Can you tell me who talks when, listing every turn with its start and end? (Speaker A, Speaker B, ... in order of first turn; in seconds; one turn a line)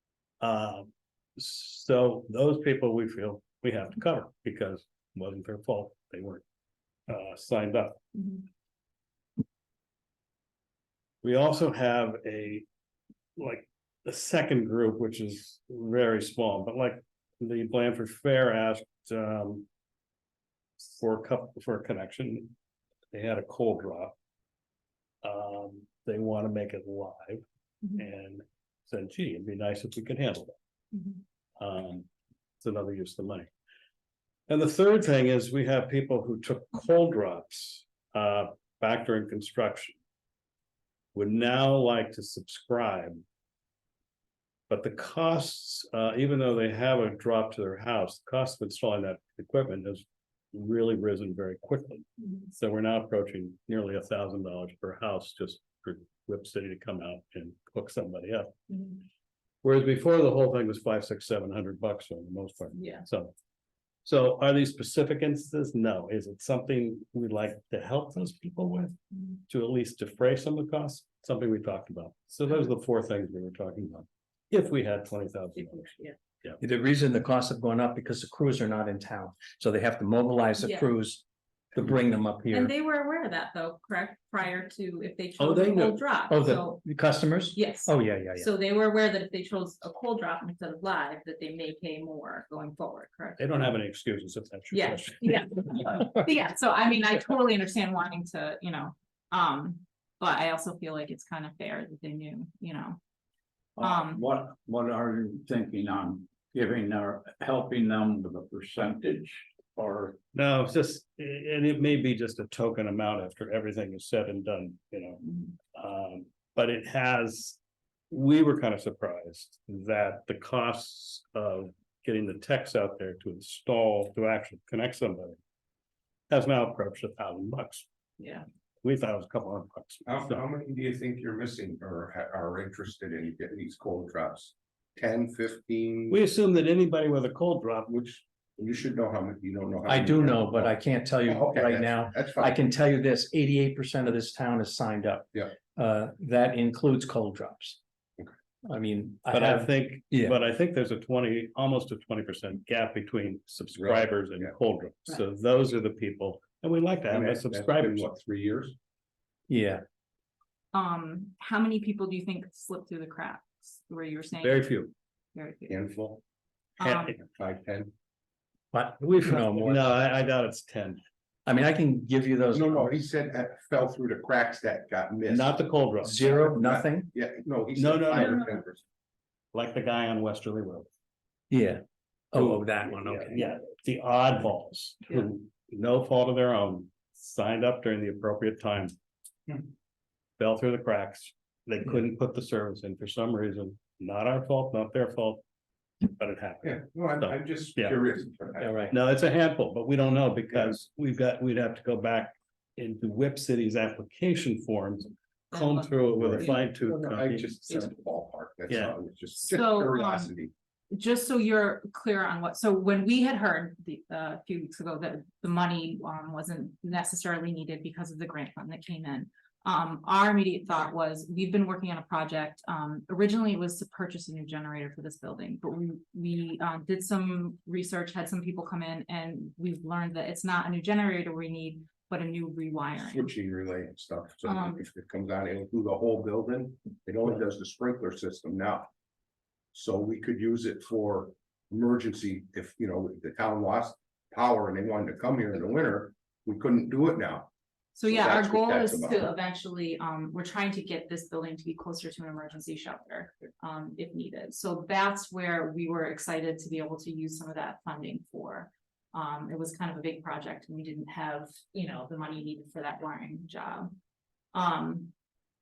Speaker A: 0.4-6.4
Speaker A: 7.1-8.2
Speaker A: 11.2-12.6
Speaker A: 13.4-19.7
Speaker A: 20.9-22.5
Speaker A: 23.1-24.1
Speaker A: 25.2-27.4
Speaker A: 27.9-30.6
Speaker A: 31.6-32.1
Speaker A: 32.6-33.5
Speaker A: 34.5-40.0
Speaker A: 41.1-43.2
Speaker A: 44.7-58.5
Speaker B: 58.7-59.0
Speaker A: 59.6-63.3
Speaker B: 62.8-63.0
Speaker A: 64.0-69.0
Speaker A: 69.5-75.9
Speaker B: 75.6-76.1
Speaker C: 76.6-82.7
Speaker B: 80.6-80.9
Speaker B: 82.5-86.8
Speaker A: 85.4-86.0
Speaker C: 86.3-88.5
Speaker B: 87.5-93.4
Speaker A: 93.4-95.9
Speaker B: 94.7-103.0
Speaker B: 103.8-104.2
Speaker D: 103.8-110.2
Speaker A: 110.3-117.6
Speaker A: 118.1-125.4
Speaker A: 126.3-127.8
Speaker B: 128.2-128.4
Speaker A: 128.8-130.4
Speaker E: 130.1-136.2
Speaker A: 136.1-137.9
Speaker E: 137.9-140.8
Speaker C: 139.9-147.8
Speaker E: 141.3-142.5
Speaker C: 148.7-150.4
Speaker A: 149.3-158.1
Speaker E: 153.8-154.5
Speaker E: 157.1-158.8
Speaker C: 159.5-159.8
Speaker B: 160.7-164.8
Speaker A: 164.4-164.9
Speaker B: 165.3-165.8
Speaker E: 165.7-166.2
Speaker B: 166.8-167.1
Speaker A: 166.8-167.1
Speaker E: 167.1-167.9
Speaker C: 168.7-169.9
Speaker A: 169.1-171.0
Speaker C: 171.4-172.9
Speaker E: 172.5-175.5
Speaker A: 175.3-176.3
Speaker C: 176.0-177.1
Speaker E: 176.1-178.8
Speaker A: 177.8-178.5
Speaker B: 178.1-178.6
Speaker A: 179.5-180.9
Speaker C: 181.5-183.5
Speaker A: 182.3-188.9
Speaker A: 190.4-195.4
Speaker A: 196.0-198.0
Speaker E: 196.6-198.9
Speaker C: 198.6-198.9
Speaker A: 198.9-207.9
Speaker B: 205.5-206.5
Speaker E: 206.1-210.5
Speaker A: 208.7-208.9
Speaker B: 209.4-210.3
Speaker B: 210.9-233.3
Speaker E: 233.0-238.9
Speaker B: 234.4-234.8
Speaker E: 239.7-247.5
Speaker B: 247.9-263.9
Speaker E: 248.1-249.2
Speaker B: 264.5-265.1